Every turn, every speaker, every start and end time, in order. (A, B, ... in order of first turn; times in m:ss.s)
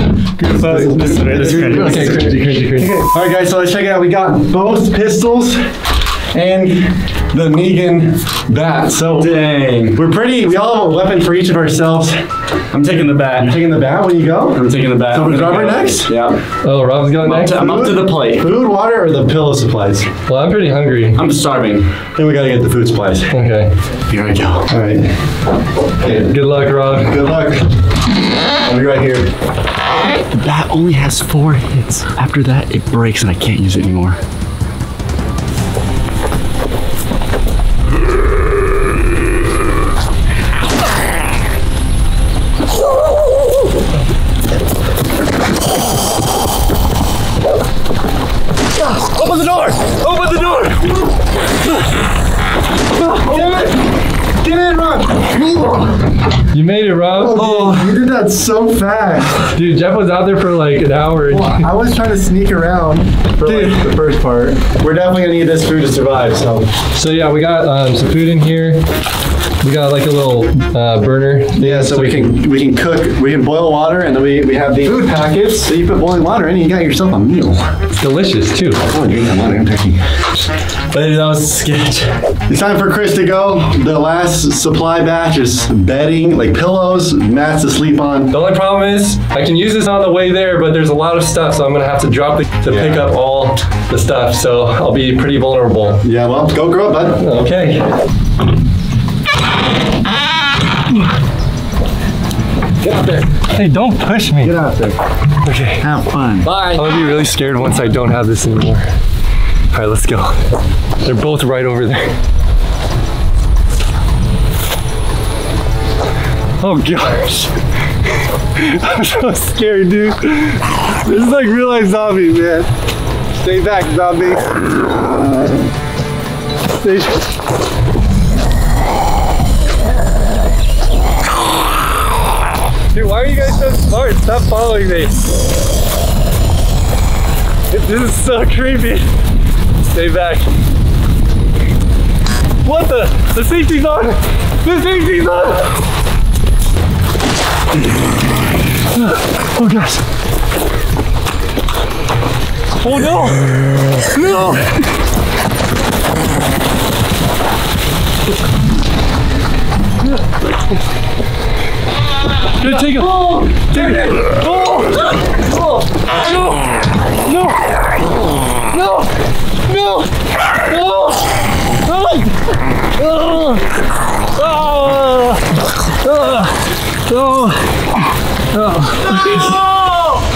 0:00.4-0:05.7 A
0:00.5-0:02.4 B
0:00.7-0:03.0 C
0:06.3-0:09.4 A
0:09.0-0:10.0 B
0:09.9-0:12.3 A
0:12.7-0:13.6 B
0:13.2-0:16.1 A
0:14.5-0:16.4 B
0:16.6-0:17.6 C
0:17.2-0:18.5 B
0:17.4-0:20.1 A
0:20.3-0:21.2 C
0:21.2-0:21.9 B
0:22.2-0:23.3 A
0:23.3-0:23.7 C
0:24.1-0:24.7 B
0:24.7-0:25.1 A
0:26.0-0:26.4 A
0:26.3-0:27.2 C
0:26.9-0:27.7 A
0:28.6-0:29.3 A
0:30.3-0:34.2 B
0:49.2-0:49.8 A
0:49.8-0:50.6 C
0:53.0-0:53.8 A
0:54.4-0:56.0 A
0:56.5-0:57.9 C
0:57.2-0:59.5 A
0:59.5-1:01.7 C
1:01.3-1:06.7 A
1:06.9-1:08.8 C
1:09.6-1:12.4 C
1:11.6-1:17.7 A
1:18.0-1:18.8 C
1:18.8-1:20.2 A
1:20.9-1:21.7 B
1:21.6-1:22.0 C
1:22.5-1:28.4 A
1:28.3-1:36.0 C
1:32.7-1:33.1 A
1:36.0-1:37.2 A
1:37.2-1:37.9 C
1:42.8-1:44.6 C
1:44.4-1:45.0 A
1:45.4-1:45.8 C
1:45.8-1:46.8 B
1:46.4-1:48.9 C
1:49.7-1:50.4 C
1:51.0-1:52.2 C
1:56.6-1:57.5 C
1:58.6-2:02.7 C
2:03.4-2:04.5 C
2:06.8-2:07.2 C
2:12.9-2:15.1 C
2:17.7-2:19.1 C
2:19.8-2:20.5 C
2:22.6-2:25.7 C
2:29.4-2:30.0 C
2:32.8-2:33.5 C
2:34.1-2:34.6 C
2:42.6-2:44.9 C
2:49.7-2:50.0 C
2:50.7-2:51.2 C
2:51.9-2:52.3 C
2:53.0-2:53.6 C
2:54.4-2:55.4 C
2:56.0-2:56.5 C
2:57.1-2:57.6 C
2:58.5-2:59.6 C